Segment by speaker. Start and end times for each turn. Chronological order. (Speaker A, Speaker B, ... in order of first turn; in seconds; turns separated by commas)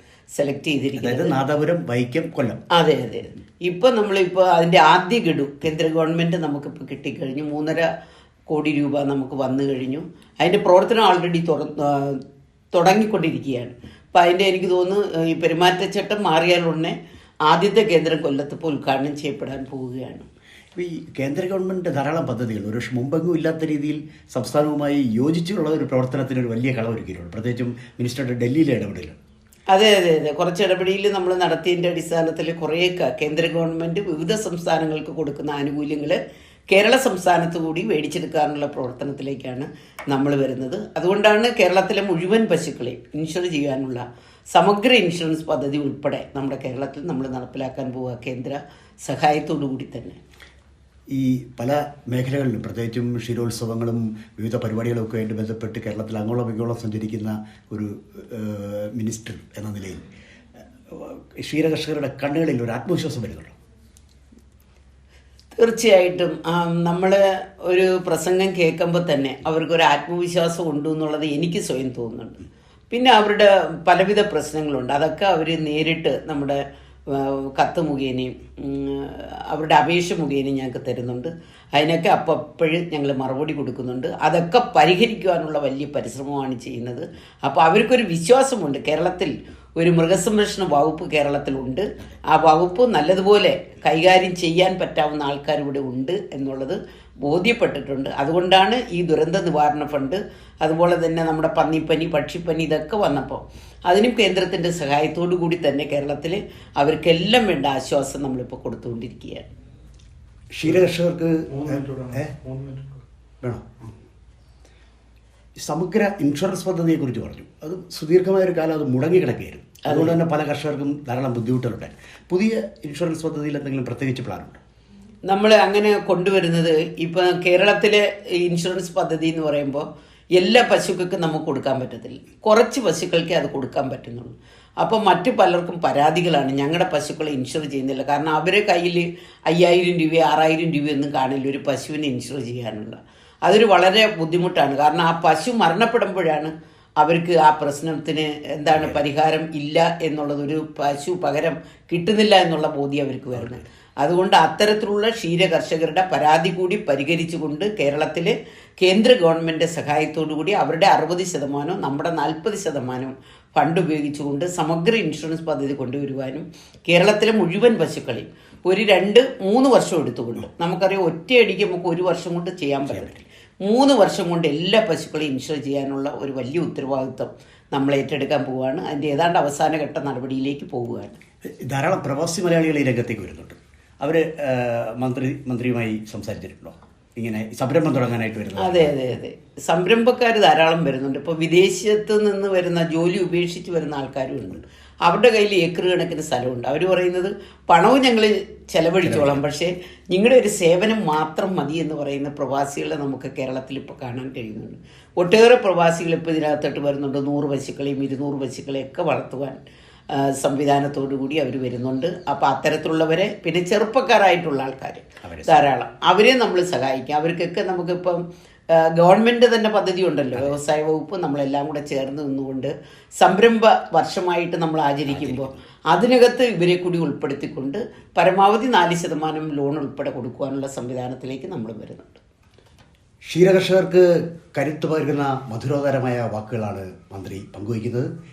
Speaker A: 0.3-1.3, Speaker B: 1.0-2.6, Speaker A: 2.7-7.9, Speaker A: 8.5-12.2, Speaker A: 12.7-16.9, Speaker A: 17.4-20.2, Speaker B: 20.8-29.2, Speaker A: 29.7-50.2, Speaker B: 51.1-60.0, Speaker B: 60.9-63.5, Speaker A: 65.5-109.5, Speaker B: 110.5-112.5, Speaker B: 113.4-113.7, Speaker B: 115.6-124.6, Speaker A: 119.8-120.2, Speaker A: 125.3-181.2, Speaker B: 153.3-153.6, Speaker B: 172.9-173.2, Speaker B: 181.4-188.9, Speaker A: 188.6-209.6, Speaker B: 199.0-199.4, Speaker A: 210.1-232.2, Speaker B: 215.2-215.7, Speaker B: 225.1-225.6, Speaker B: 233.3-238.1